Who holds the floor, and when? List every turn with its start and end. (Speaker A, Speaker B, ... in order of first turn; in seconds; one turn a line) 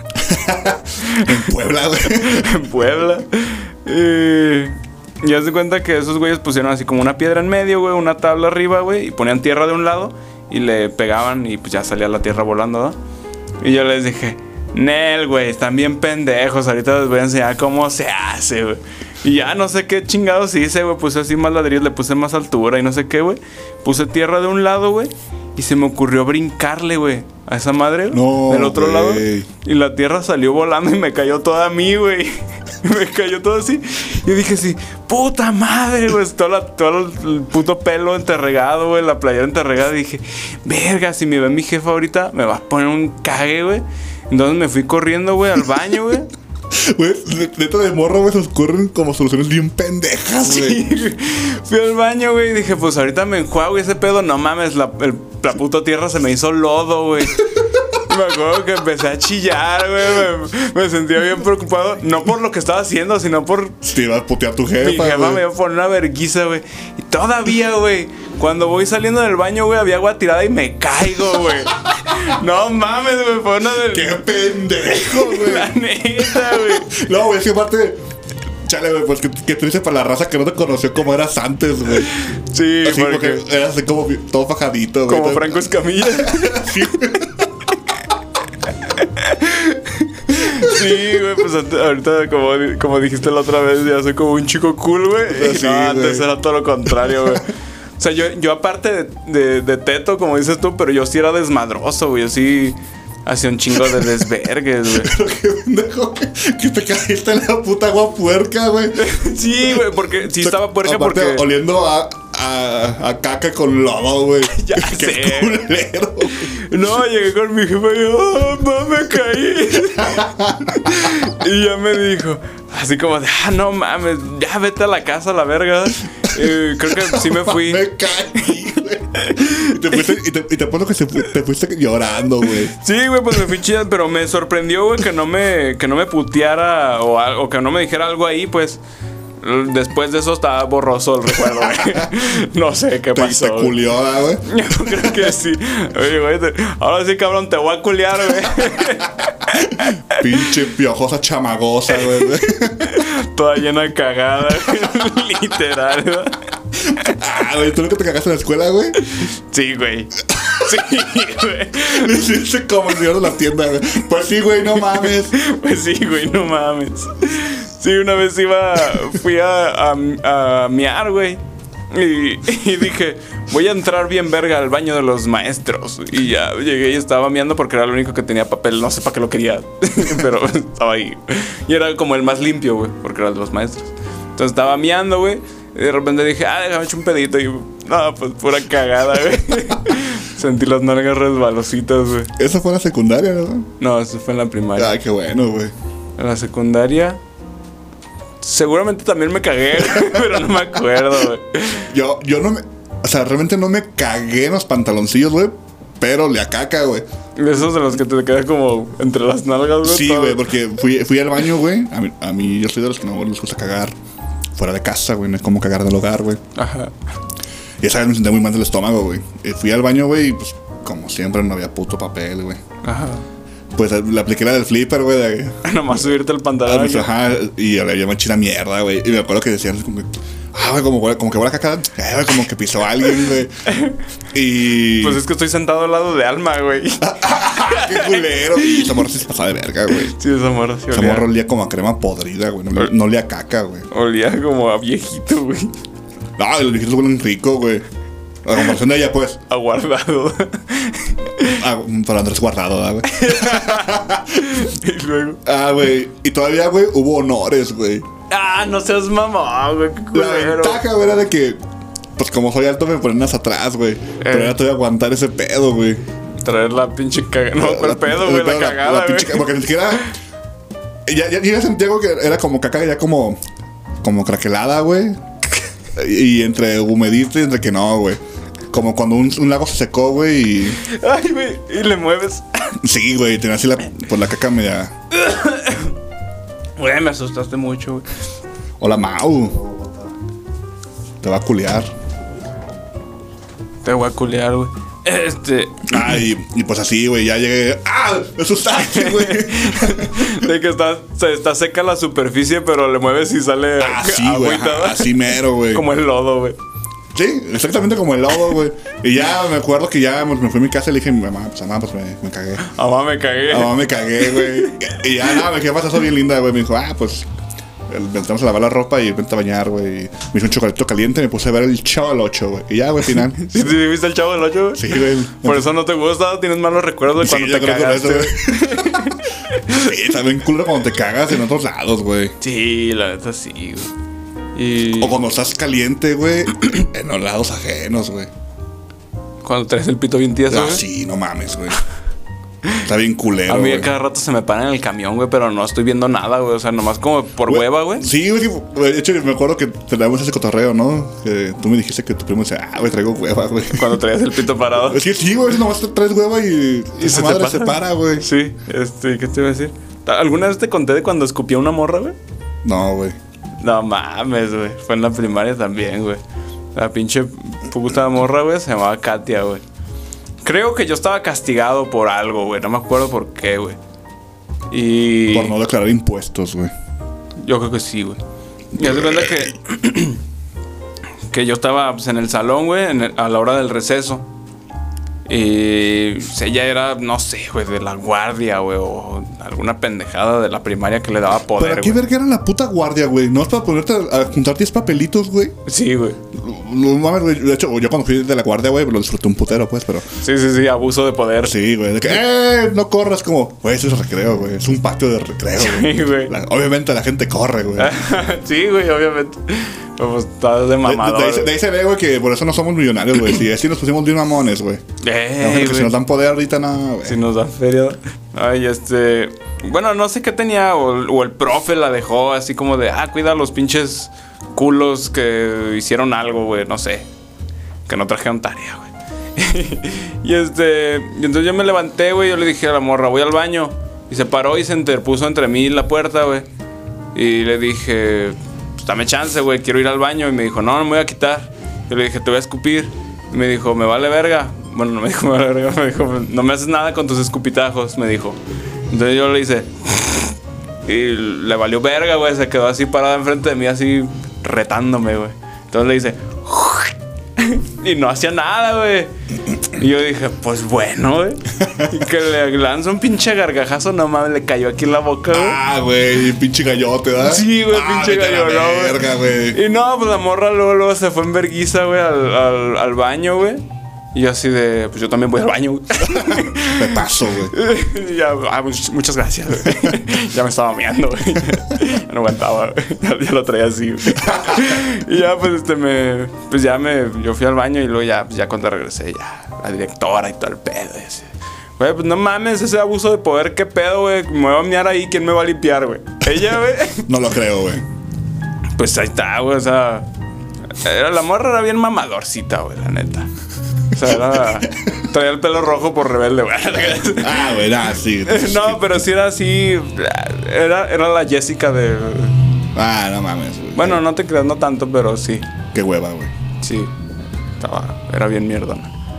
Speaker A: 0.2-2.6
Speaker B: 1.0-1.4
Speaker B: 2.0-13.0
Speaker B: 13.6-46.3
Speaker A: 28.1-29.5
Speaker A: 46.7-50.8
Speaker B: 50.4-57.4
Speaker B: 57.9-63.8
Speaker A: 63.8-65.4
Speaker B: 64.8-76.9
Speaker A: 73.8-78.0
Speaker A: 78.6-82.1
Speaker B: 82.1-83.4
Speaker A: 82.8-87.5
Speaker B: 85.1-87.2
Speaker B: 88.8-105.1
Speaker A: 95.3-96.3
Speaker A: 97.1-97.4
Speaker A: 103.7-104.1
Speaker A: 104.9-116.5
Speaker B: 108.9-111.5
Speaker B: 114.5-115.6
Speaker B: 116.2-128.4
Speaker A: 120.0-120.9
Speaker A: 126.9-132.7
Speaker B: 129.2-130.1
Speaker B: 132.7-138.8
Speaker B: 139.4-143.8
Speaker A: 143.1-145.3
Speaker B: 144.4-150.4
Speaker A: 149.5-153.1
Speaker B: 152.8-157.2
Speaker A: 157.0-159.0
Speaker B: 159.0-162.1
Speaker A: 161.8-165.3
Speaker B: 165.0-192.3
Speaker A: 192.4-193.7
Speaker B: 193.8-194.9
Speaker A: 194.8-195.7
Speaker B: 196.2-197.2
Speaker B: 198.4-201.9
Speaker A: 201.8-207.1
Speaker B: 207.3-210.4
Speaker A: 209.8-213.9
Speaker A: 214.5-216.4
Speaker B: 216.5-216.9
Speaker A: 217.8-222.6
Speaker B: 222.8-223.2
Speaker A: 223.7-226.1
Speaker B: 225.6-227.1
Speaker A: 226.6-233.6
Speaker B: 233.7-233.9
Speaker A: 234.3-235.2
Speaker B: 235.0-239.0
Speaker A: 237.0-240.1
Speaker B: 239.9-241.3
Speaker A: 240.9-243.9
Speaker B: 243.9-245.8
Speaker A: 246.4-247.8
Speaker A: 248.4-249.4
Speaker B: 249.5-251.6
Speaker A: 251.5-254.6
Speaker B: 253.1-255.4
Speaker A: 255.4-258.1
Speaker B: 258.3-260.8
Speaker A: 260.1-261.6
Speaker A: 262.1-266.0
Speaker B: 264.2-264.6
Speaker B: 266.4-269.5
Speaker A: 267.6-270.1
Speaker A: 271.1-273.4
Speaker A: 274.0-275.2
Speaker A: 275.9-280.8
Speaker B: 280.8-282.8
Speaker A: 282.8-284.9
Speaker B: 285.2-285.9
Speaker B: 286.8-288.1
Speaker A: 288.8-289.7
Speaker A: 291.2-291.9
Speaker B: 293.8-296.0
Speaker A: 295.9-300.4
Speaker B: 298.7-306.6
Speaker A: 303.8-305.9
Speaker A: 307.1-312.7
Speaker B: 312.6-314.7
Speaker A: 313.5-317.3
Speaker A: 317.9-323.6
Speaker B: 323.4-329.8
Speaker A: 324.7-325.7
Speaker A: 327.2-329.1
Speaker A: 329.7-332.3
Speaker B: 332.4-333.9
Speaker B: 334.5-335.2
Speaker A: 334.9-338.3
Speaker B: 339.4-340.8
Speaker A: 340.5-341.8
Speaker A: 342.8-343.9
Speaker B: 343.5-348.1
Speaker A: 347.5-354.0
Speaker B: 353.7-355.0
Speaker A: 354.8-358.3
Speaker B: 357.0-362.1
Speaker A: 362.6-363.1
Speaker B: 363.6-366.2
Speaker B: 366.7-369.6
Speaker B: 370.4-373.8
Speaker B: 374.7-375.6
Speaker A: 375.3-376.7
Speaker B: 377.4-378.2
Speaker B: 378.7-380.2
Speaker A: 378.8-379.5
Speaker B: 381.3-384.3
Speaker B: 385.3-392.0
Speaker A: 391.6-395.6
Speaker B: 395.6-396.2
Speaker A: 396.3-400.1
Speaker B: 400.2-401.5
Speaker A: 401.4-408.0
Speaker B: 405.6-406.3
Speaker B: 407.8-411.5
Speaker A: 410.8-414.8
Speaker B: 415.0-415.9
Speaker A: 415.4-417.2
Speaker B: 417.0-427.1
Speaker B: 427.9-436.5
Speaker B: 437.1-459.1
Speaker B: 459.7-465.6
Speaker A: 461.6-461.9
Speaker A: 465.3-469.6
Speaker B: 467.2-497.1
Speaker A: 476.2-477.5
Speaker A: 497.0-497.9
Speaker B: 498.8-500.1
Speaker B: 500.8-503.3
Speaker B: 503.9-507.6
Speaker A: 507.2-509.0
Speaker B: 508.2-512.4
Speaker A: 512.7-514.0
Speaker B: 513.8-515.5
Speaker A: 515.7-516.3
Speaker B: 516.6-516.9
Speaker B: 517.6-518.9